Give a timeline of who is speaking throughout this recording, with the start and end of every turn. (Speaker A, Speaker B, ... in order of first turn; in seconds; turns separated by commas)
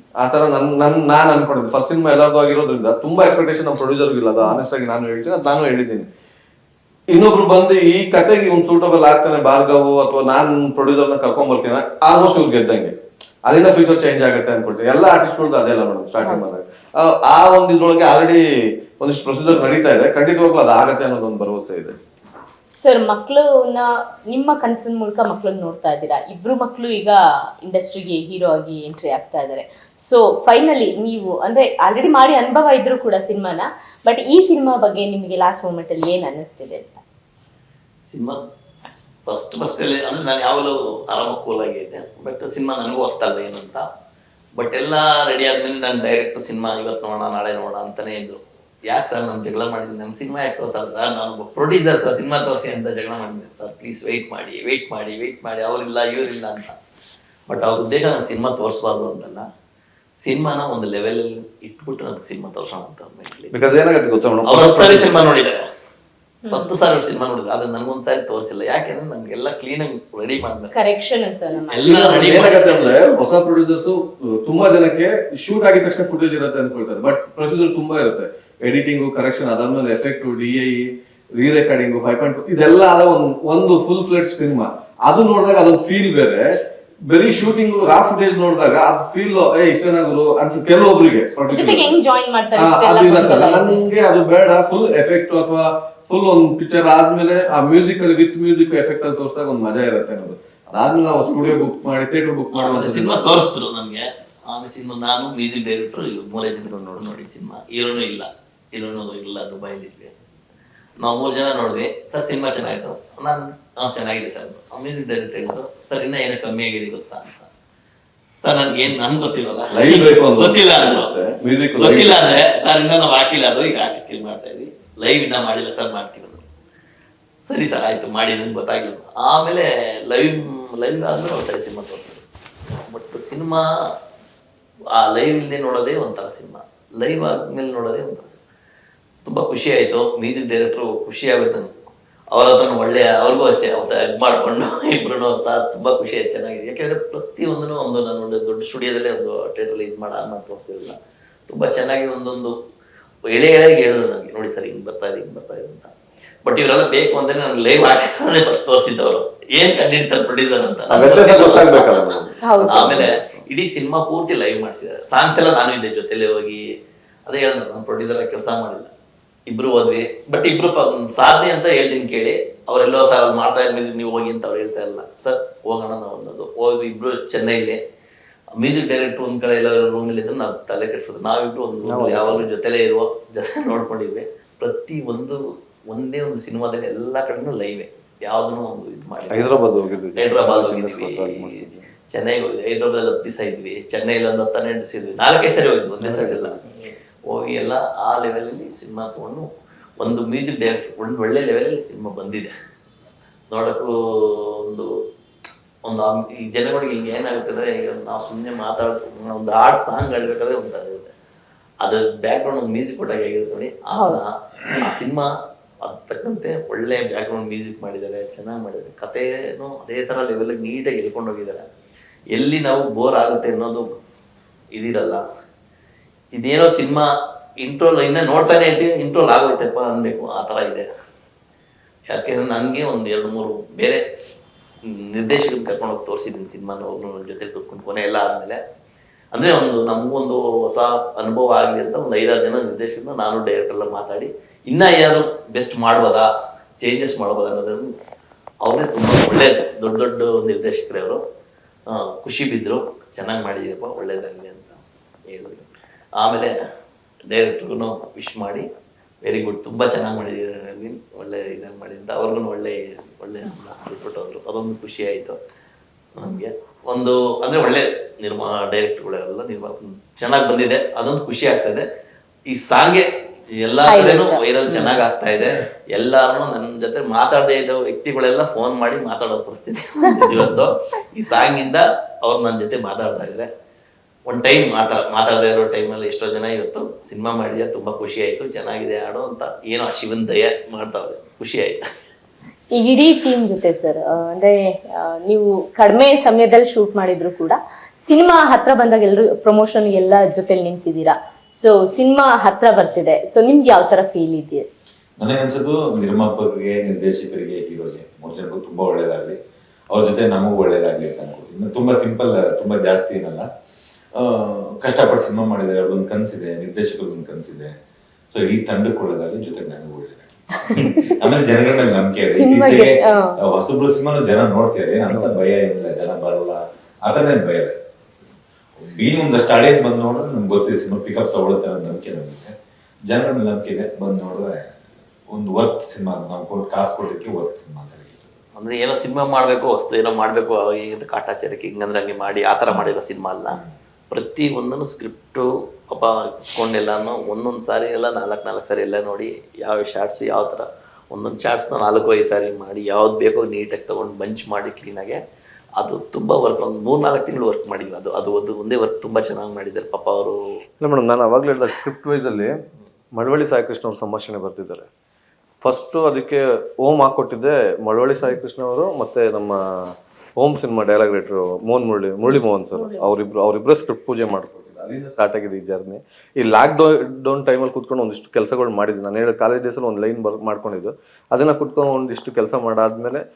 Speaker A: 0.2-6.1, Speaker A: 7.1-18.4, Speaker A: 19.0-22.0, Speaker B: 22.8-37.0, Speaker C: 38.1-38.4, Speaker C: 39.2-43.9, Speaker C: 44.6-56.7, Speaker C: 57.5-59.4, Speaker C: 60.2-63.6, Speaker A: 63.5-65.1, Speaker C: 64.4-65.7, Speaker B: 66.4-66.7, Speaker C: 66.5-70.7, Speaker B: 70.7-72.4, Speaker C: 71.7-72.9, Speaker A: 71.9-86.5, Speaker A: 87.1-91.9, Speaker B: 91.5-93.8, Speaker A: 92.5-103.5, Speaker C: 102.5-110.1, Speaker A: 106.6-107.1, Speaker C: 111.0-117.5, Speaker C: 118.4-121.1, Speaker A: 119.7-122.4, Speaker C: 121.8-126.4, Speaker C: 127.4-132.2, Speaker C: 132.9-133.6, Speaker C: 135.0-138.3, Speaker C: 139.2-141.7, Speaker C: 142.3-150.9, Speaker C: 151.5-152.5, Speaker C: 153.3-155.9, Speaker C: 156.4-166.6, Speaker A: 160.9-163.4, Speaker B: 162.4-163.0, Speaker C: 167.2-168.9, Speaker C: 169.5-177.8, Speaker C: 178.6-185.4, Speaker A: 181.8-182.5, Speaker C: 185.9-196.6, Speaker A: 189.3-191.9, Speaker A: 196.0-196.6, Speaker C: 197.3-199.4, Speaker C: 200.0-202.5, Speaker C: 203.5-204.9, Speaker C: 205.8-211.1, Speaker C: 211.8-215.3, Speaker B: 213.9-214.2, Speaker C: 215.8-221.6, Speaker C: 222.3-223.9, Speaker C: 224.7-225.2, Speaker C: 226.3-227.1, Speaker C: 227.6-230.9, Speaker C: 232.1-234.0, Speaker C: 234.9-238.6, Speaker C: 239.3-246.3, Speaker C: 246.8-247.8, Speaker C: 248.6-251.2, Speaker C: 251.9-255.7, Speaker C: 256.2-256.5, Speaker C: 257.3-258.6, Speaker C: 259.2-265.4, Speaker C: 266.2-271.8, Speaker C: 272.5-273.0, Speaker C: 273.6-283.5, Speaker B: 273.9-274.9, Speaker C: 284.3-291.8, Speaker B: 292.7-304.6, Speaker D: 305.2-309.4, Speaker D: 309.9-313.4, Speaker D: 314.2-317.7, Speaker D: 318.3-327.7, Speaker B: 322.3-323.3, Speaker A: 325.1-325.4, Speaker D: 328.8-332.5, Speaker D: 333.1-334.6, Speaker D: 335.3-338.3, Speaker C: 338.6-343.6, Speaker C: 344.1-355.2, Speaker C: 355.8-360.4, Speaker A: 360.8-362.5, Speaker A: 363.1-364.9, Speaker A: 365.6-383.2, Speaker B: 372.3-373.1